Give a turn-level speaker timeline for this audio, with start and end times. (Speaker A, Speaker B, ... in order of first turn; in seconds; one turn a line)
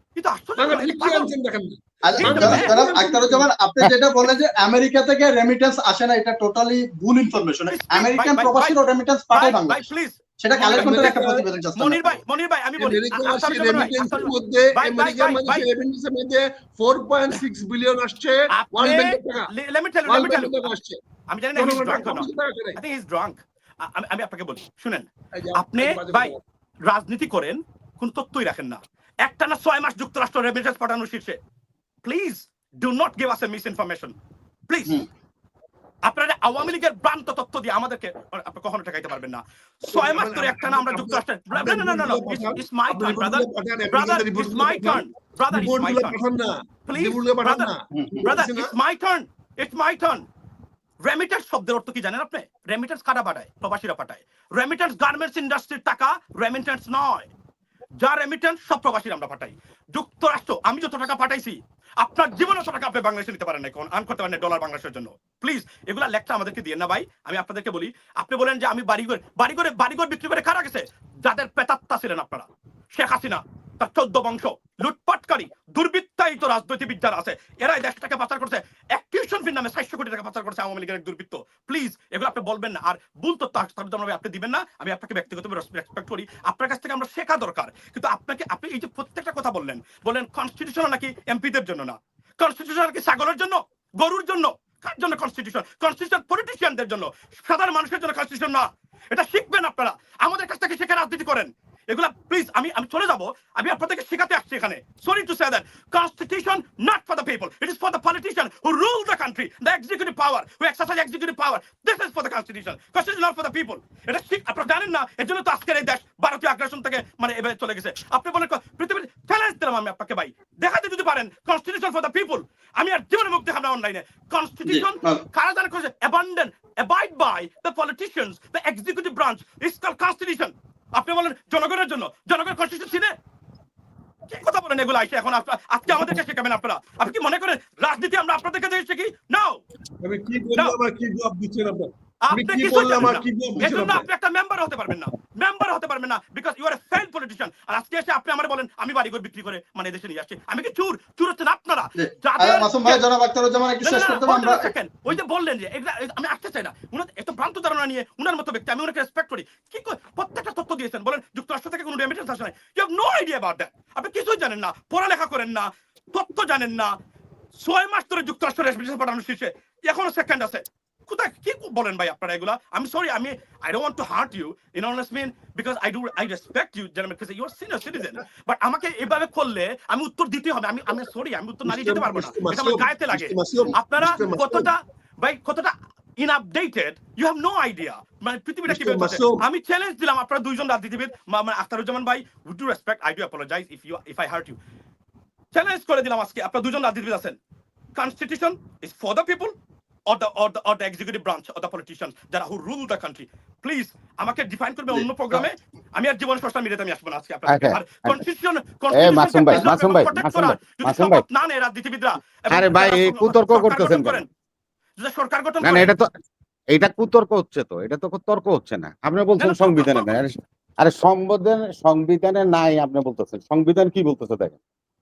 Speaker A: 0.1-1.3
Speaker B: 0.6-3.4
Speaker C: 2.1-9.8
Speaker A: 2.2-3.2
Speaker A: 7.7-8.8
Speaker A: 9.3-11.2
Speaker C: 10.4-12.2
Speaker B: 10.6-11.4
Speaker A: 11.8-15.7
Speaker B: 12.8-19.5
Speaker A: 18.5-20.7
Speaker B: 20.1-21.0
Speaker A: 21.3-26.3
Speaker B: 21.5-22.8
Speaker B: 25.4-26.4
Speaker A: 26.9-31.4
Speaker A: 32.0-34.2
Speaker A: 34.7-35.0
Speaker A: 36.0-46.2
Speaker B: 39.9-48.7
Speaker A: 46.9-47.7
Speaker A: 48.2-50.2
Speaker A: 51.0-57.3
Speaker A: 58.0-133.1
Speaker C: 124.7-125.2
Speaker A: 134.3-139.6
Speaker B: 140.0-144.0
Speaker A: 142.3-153.0
Speaker C: 152.0-154.7
Speaker A: 153.8-166.9
Speaker A: 167.6-194.6
Speaker B: 181.6-184.7
Speaker B: 188.7-189.4
Speaker A: 195.5-197.4
Speaker A: 197.9-199.5
Speaker A: 200.1-214.3
Speaker D: 204.9-205.4
Speaker D: 207.4-208.2
Speaker D: 208.9-211.2
Speaker D: 212.5-214.2
Speaker A: 215.0-215.9
Speaker D: 215.6-216.1
Speaker D: 216.7-224.6
Speaker A: 219.4-220.1